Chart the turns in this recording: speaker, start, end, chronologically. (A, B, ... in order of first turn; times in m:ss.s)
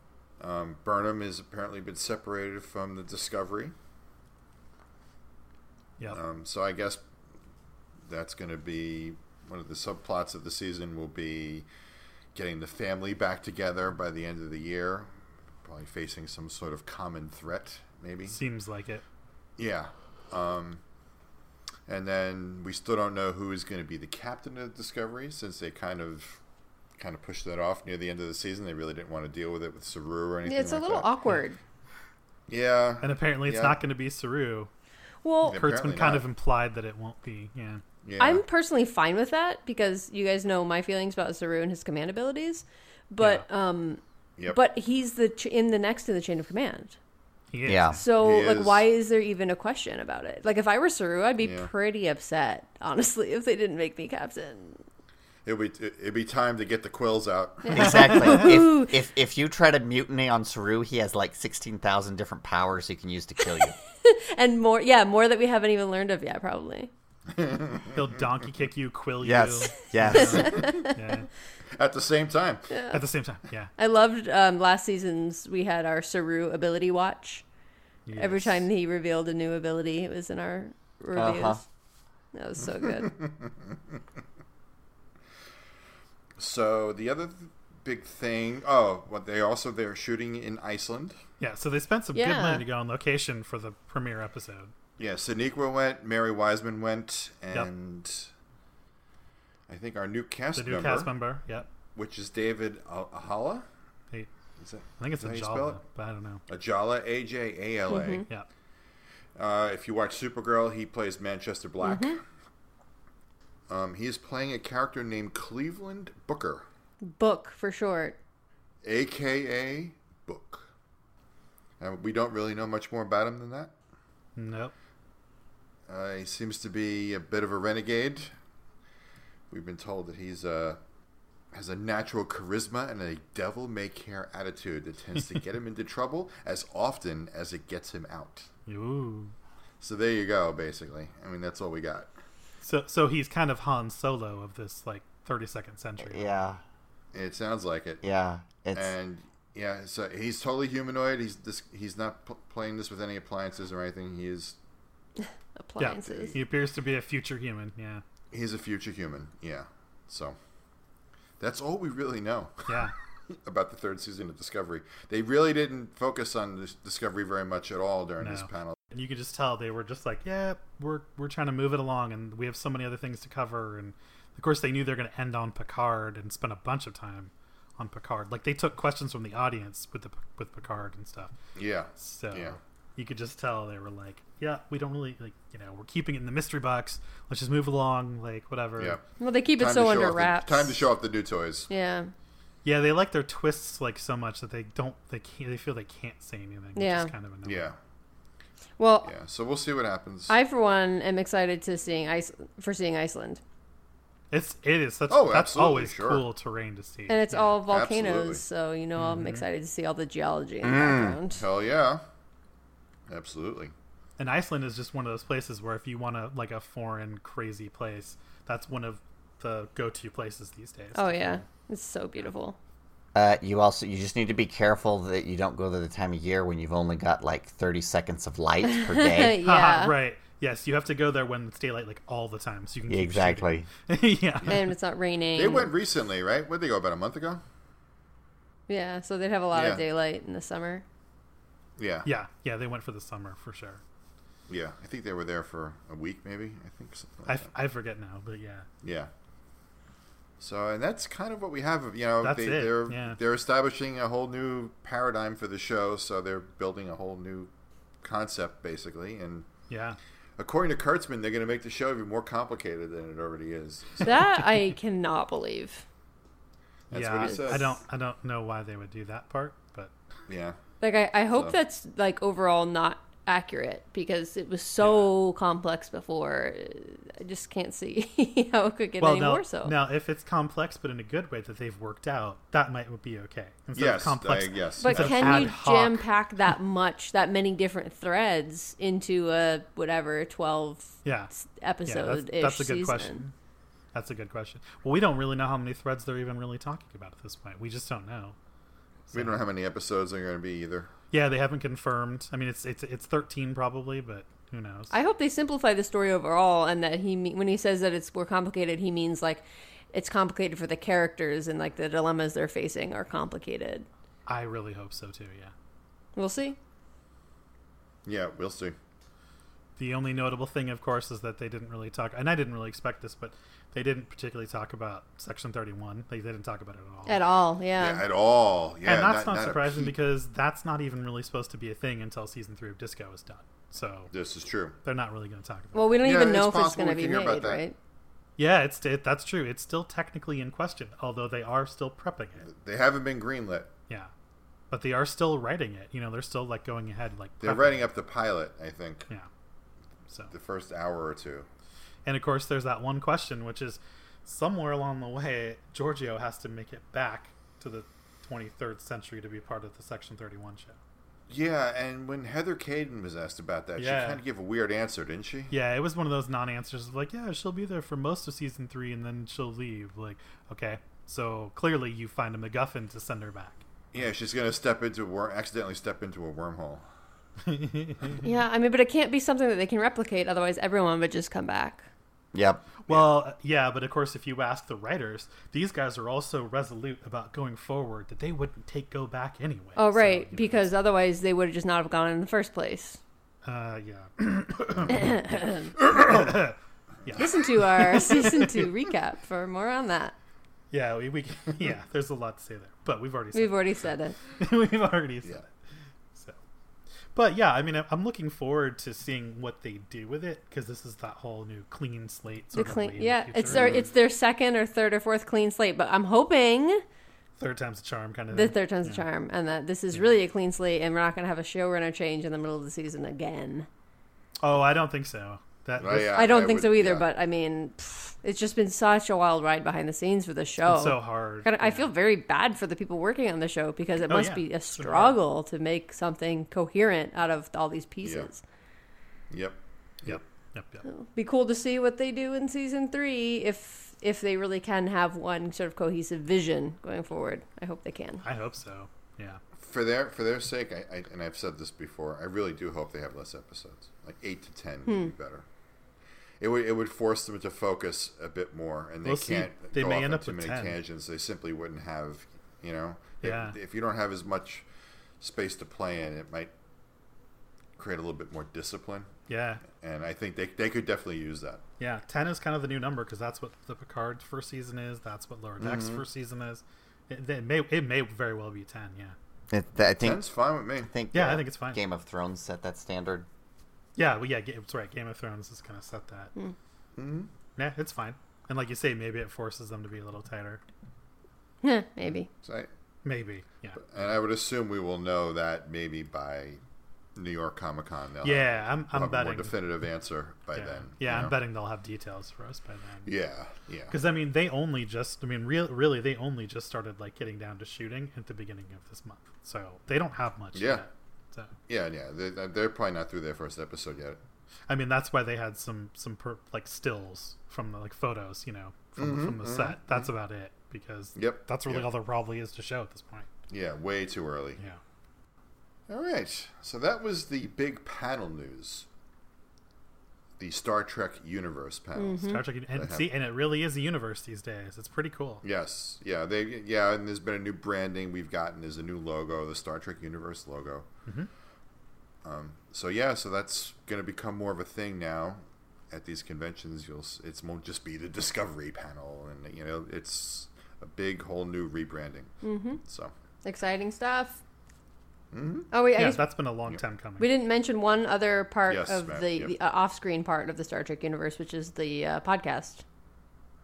0:00.4-0:03.7 A
0:06.1-0:07.0 A
0:08.0-0:11.6 A
0:12.3-0:15.1 A
0:15.6-0:18.4 A
0:18.3-0:19.0 B
0:19.6-0:20.8 A
0:21.9-0:26.4 A
0:27.0-0:31.1 A
0:30.4-0:31.6 C
0:32.5-0:33.8 A
0:33.0-0:34.7 B
0:35.2-0:35.6 C
0:35.5-0:36.2 A
0:35.5-0:37.8 B
0:38.0-0:38.4 A
0:38.2-0:47.0 C
0:43.2-0:43.4 B
0:47.5-0:48.0 B
0:47.6-0:48.0 D
0:47.9-0:54.8 C
0:48.1-0:48.8 A
0:51.4-0:51.7 A
0:55.4-0:58.3 A
0:57.6-0:59.0 C
0:57.7-1:03.8 D
1:04.0-1:06.9 C
1:07.3-1:08.2 A
1:07.9-1:11.3 B
1:09.2-1:10.6 D
1:10.1-1:11.0 C
1:10.5-1:10.9 A
1:11.7-1:12.6 A
1:12.7-1:13.0 C
1:12.9-1:13.7 B
1:13.8-1:17.4 C
1:18.0-1:18.6 B
1:18.2-1:21.6 C
1:21.1-1:21.6 D
1:22.3-1:23.1 C
1:23.0-1:23.5 A
1:26.4-1:31.2 A
1:31.4-1:34.7 B
1:32.1-1:32.6 C
1:35.0-1:38.3 A
1:39.7-1:41.1 A
1:40.5-1:41.7 B
1:41.9-1:43.6 A
1:44.6-1:45.8 A
1:45.0-1:46.4 B
1:46.5-1:48.2 A
1:47.8-1:48.2 C
1:49.4-1:52.2 A
1:51.8-1:52.2 C
1:53.7-1:56.6 A
1:57.1-1:58.2 C
1:58.8-2:00.7 A
2:01.8-2:03.7 A
2:04.4-2:04.7 B
2:05.9-2:08.3 A
2:09.5-2:10.8 A
2:11.5-2:18.5 A
2:18.7-2:19.3 B
2:19.8-2:22.1 A
2:22.6-2:26.3 B
2:26.0-2:26.6 D
2:27.1-2:28.0 A
2:28.0-2:28.9 D
2:28.7-2:34.6 A
2:35.2-2:36.3 C
2:35.8-2:38.0 B
2:36.0-2:36.4 A
2:38.3-2:40.4 A
2:41.4-2:42.7 A
2:42.7-2:42.9 B
2:43.3-2:48.8 A
2:48.2-3:01.3 B
3:01.5-3:02.6 A
3:02.0-3:09.0 B
3:08.8-3:09.0 A
3:09.2-3:10.8 C
3:09.6-3:11.7 A
3:11.7-3:12.1 C
3:12.6-3:17.7 B
3:16.8-3:17.1 C
3:17.4-3:17.8 A
3:18.8-3:19.1 C
3:19.0-3:20.3 A
3:20.3-3:23.4 C
3:24.3-3:27.5 B
3:25.1-3:26.2 A
3:27.1-3:31.4 C
3:27.6-3:28.4 A
3:29.0-3:29.4 B
3:30.6-3:31.2 D
3:31.3-3:32.0 A
3:33.1-3:33.7 A
3:34.2-3:41.4 B
3:40.9-3:42.6 C
3:43.1-3:49.4 D
3:48.6-3:49.9 C
3:49.4-3:54.7 B
3:52.9-3:53.7 D
3:54.5-3:55.7 C
3:55.4-3:57.4 A
3:58.7-4:00.8 C
3:59.5-3:59.8 A
4:01.8-4:02.1 A
4:02.0-4:03.8 B
4:04.5-4:07.5 A
4:07.3-4:08.7 B
4:08.8-4:09.1 A
4:10.4-4:17.5 A
4:12.2-4:13.2 B
4:18.0-4:19.5 A
4:19.7-4:20.0 B
4:20.4-4:24.4 A
4:24.0-4:25.8 C
4:26.9-4:27.8 A
4:26.9-4:29.9 B
4:27.2-4:27.6 C
4:30.3-4:30.6 A
4:30.8-4:39.7 C
4:34.8-4:35.1 B
4:39.0-4:46.1 B
4:43.7-4:45.6 A
4:44.8-4:53.2 C
4:51.0-4:51.3 B
4:51.8-4:53.3 B
4:53.9-4:58.4 B
4:59.1-4:59.4 B
4:59.1-5:00.9 A
5:01.1-5:04.9 B
5:04.9-5:13.9 C
5:14.3-5:15.5 B
5:16.2-5:16.6 C
5:18.0-5:18.8 A
5:19.8-5:27.2 B
5:27.1-5:28.0 C
5:27.8-5:29.9 A
5:28.8-5:34.1 B
5:34.1-5:34.8 A
5:34.8-5:35.9 B
5:35.7-5:37.8 C
5:36.0-5:37.6 A
5:38.4-5:42.5 B
5:42.4-5:43.7 A
5:44.7-5:47.8 B
5:47.4-5:49.1 A
5:50.3-5:51.5 A
5:52.0-6:00.8 B
6:01.3-6:05.5 A
6:03.8-6:04.2 B
6:05.5-6:13.6 B
6:13.9-6:16.8 A
6:17.4-6:18.3 B
6:18.2-6:21.8 C
6:22.3-6:22.6 D
6:22.8-6:30.7 B
6:29.8-6:33.0 C
6:33.4-6:38.7 B
6:34.9-6:35.7 C
6:37.2-6:40.1 C
6:40.7-6:43.6 B
6:43.3-6:44.2 C
6:44.2-6:45.5 B
6:47.1-6:53.8 B
6:52.5-6:56.8 C
6:53.5-6:53.8 A
6:57.4-6:59.0 B
6:58.3-7:03.7 C
7:04.4-7:06.2 B
7:05.8-7:07.1 A
7:06.1-7:18.4 C
7:10.6-7:11.9 B
7:14.1-7:15.2 B
7:18.0-7:18.3 A
7:19.3-7:20.2 A
7:20.0-7:20.8 B
7:20.8-7:28.2 C
7:28.2-7:29.4 B
7:29.6-7:35.4 A
7:34.9-7:35.1 C
7:36.4-7:44.7 A
7:39.0-7:40.8 B
7:43.2-7:43.6 B
7:45.2-7:46.5 A
7:47.8-7:49.1 A
7:49.3-7:49.6 B
7:49.7-7:51.6 A
7:51.8-7:59.2 B
7:55.6-7:56.0 A
7:59.5-8:00.2 D
8:00.0-8:00.9 A
8:00.8-8:03.3 D
8:01.1-8:01.8 B
8:04.0-8:06.3 B
8:07.0-8:07.3 A
8:07.6-8:10.6 B
8:11.6-8:12.3 C
8:12.4-8:12.7 A
8:13.0-8:13.8 B
8:13.8-8:16.6 A
8:17.2-8:21.3 A
8:18.2-8:19.5 B
8:20.5-8:23.1 B
8:23.0-8:23.9 A
8:23.9-8:31.5 B
8:30.5-8:30.8 A
8:31.7-8:34.2 A
8:34.7-8:43.3 B
8:39.0-8:40.0 A
8:41.2-8:41.9 A
8:43.5-8:44.6 A
8:45.9-8:48.9 A
8:50.4-8:53.1 A
8:52.0-8:52.4 C
8:52.2-8:55.4 B
8:55.4-9:00.9 A
9:02.2-9:12.3 A
9:12.4-9:12.8 C
9:12.8-9:13.1 A
9:13.4-9:14.4 C
9:15.3-9:15.7 A
9:15.7-9:16.2 C
9:16.0-9:17.3 B
9:17.2-9:22.8 C
9:18.7-9:19.5 A